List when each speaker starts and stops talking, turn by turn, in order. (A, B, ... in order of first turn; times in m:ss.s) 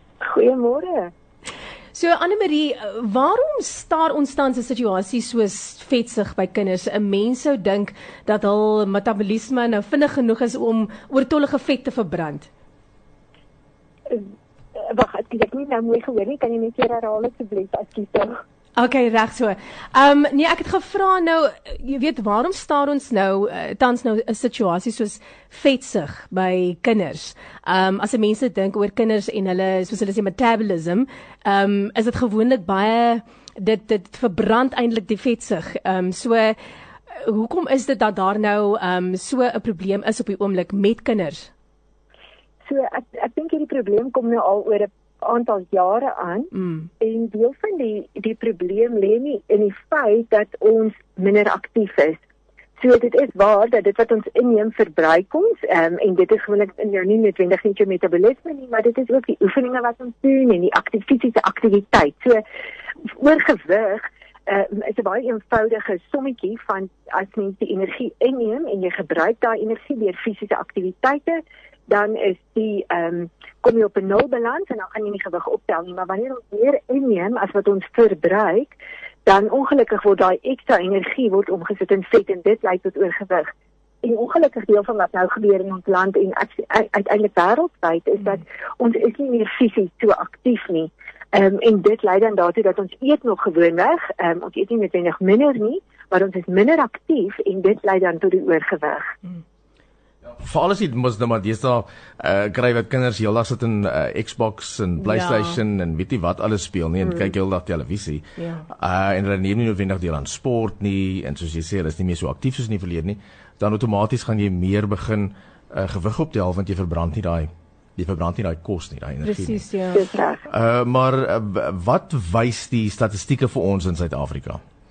0:00.2-0:01.1 A
0:01.9-0:12.5 B
0:14.8-0:18.4 A
0:18.8-0:36.6 B
0:37.1-0:41.5 B
0:42.7-0:52.2 A
0:46.6-0:46.9 B
0:52.8-1:02.4 A
1:03.0-1:23.5 A
1:24.0-1:39.1 A
1:40.4-1:59.6 C
1:45.0-1:45.6 B
1:48.4-1:48.6 B
1:59.2-2:00.0 B
1:59.9-2:00.4 A
2:00.5-2:04.6 C